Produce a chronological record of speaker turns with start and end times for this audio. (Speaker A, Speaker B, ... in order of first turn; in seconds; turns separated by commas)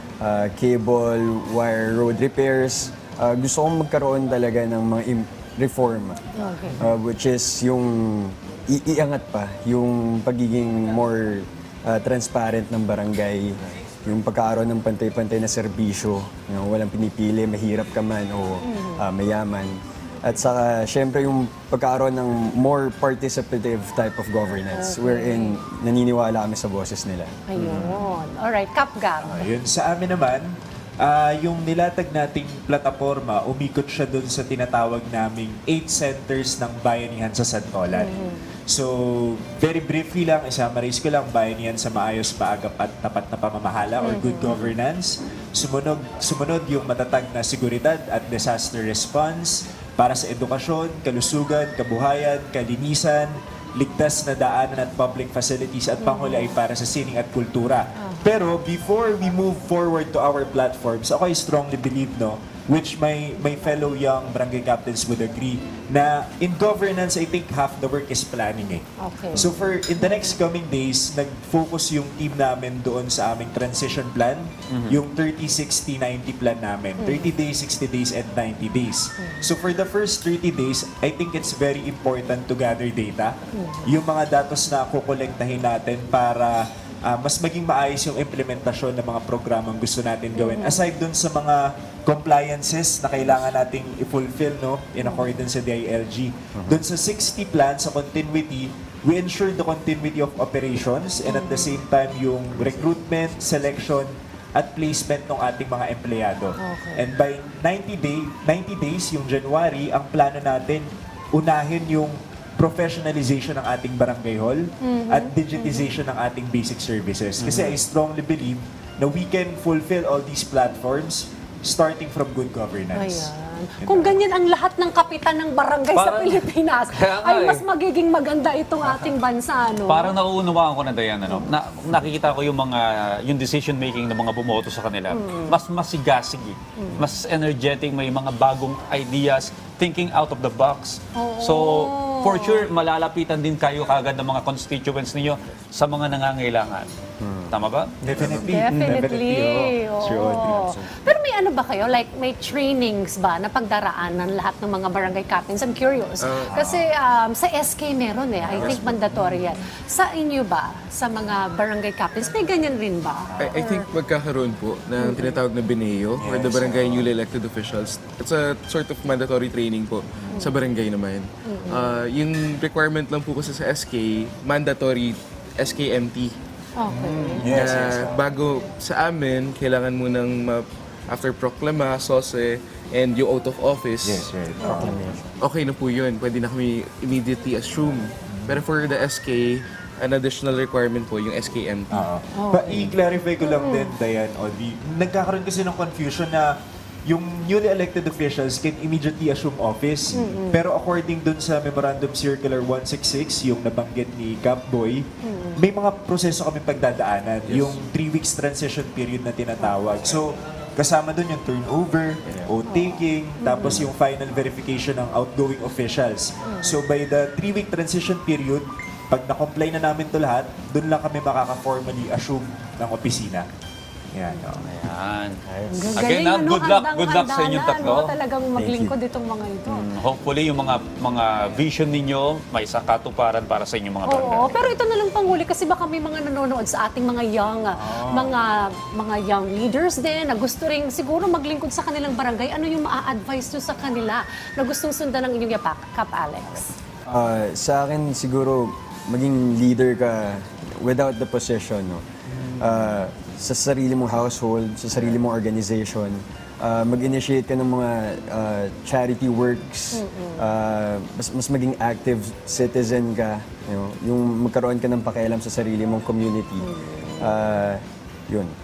Speaker A: 0.2-6.2, Speaker B: 6.3-6.8, Speaker A: 6.8-27.4, Speaker B: 18.6-19.0, Speaker B: 24.7-25.6, Speaker B: 27.5-29.5, Speaker C: 27.6-28.0, Speaker C: 29.2-38.1, Speaker B: 37.9-38.4, Speaker C: 38.7-83.3, Speaker B: 44.0-44.6, Speaker B: 56.0-56.6, Speaker B: 58.0-58.3, Speaker B: 69.0-70.4, Speaker D: 74.7-75.0, Speaker B: 77.0-77.3, Speaker B: 79.2-79.4, Speaker B: 83.5-83.9, Speaker C: 83.8-124.2, Speaker B: 90.3-90.8, Speaker B: 95.0-95.3, Speaker A: 96.5-96.8, Speaker B: 101.2-101.8, Speaker B: 106.6-107.1, Speaker B: 114.8-115.9, Speaker D: 117.4-117.8, Speaker B: 122.9-130.1, Speaker D: 125.9-127.6, Speaker D: 129.9-146.9, Speaker B: 135.1-135.6, Speaker B: 136.8-137.0, Speaker B: 141.1-142.7, Speaker A: 147.2-147.5, Speaker D: 147.5-148.3, Speaker C: 148.0-150.8, Speaker B: 148.4-163.9, Speaker E: 156.2-156.6, Speaker C: 156.5-156.8, Speaker C: 158.4-159.5, Speaker E: 163.4-176.4, Speaker B: 165.0-165.4, Speaker C: 166.2-167.1, Speaker B: 171.4-172.0, Speaker B: 176.8-177.5, Speaker C: 176.9-178.2, Speaker E: 177.4-184.3, Speaker C: 184.0-185.0, Speaker B: 184.6-185.0, Speaker A: 184.6-185.3, Speaker E: 185.4-191.9, Speaker C: 188.2-188.6, Speaker C: 191.9-196.5, Speaker B: 192.3-192.9, Speaker B: 193.4-193.9, Speaker C: 197.1-205.1, Speaker B: 200.1-200.6, Speaker B: 205.2-205.6, Speaker C: 205.6-223.4, Speaker E: 207.4-207.8, Speaker B: 212.7-213.8, Speaker B: 216.4-216.8, Speaker C: 224.1-224.7, Speaker D: 224.6-225.4, Speaker A: 225.5-226.1, Speaker B: 225.7-229.9, Speaker D: 225.9-228.1, Speaker A: 228.6-228.9, Speaker D: 229.7-234.7, Speaker B: 234.1-246.7, Speaker C: 237.7-238.3, Speaker A: 247.1-252.0, Speaker C: 252.3-253.0, Speaker A: 252.6-268.5, Speaker B: 259.9-260.4, Speaker B: 266.6-267.4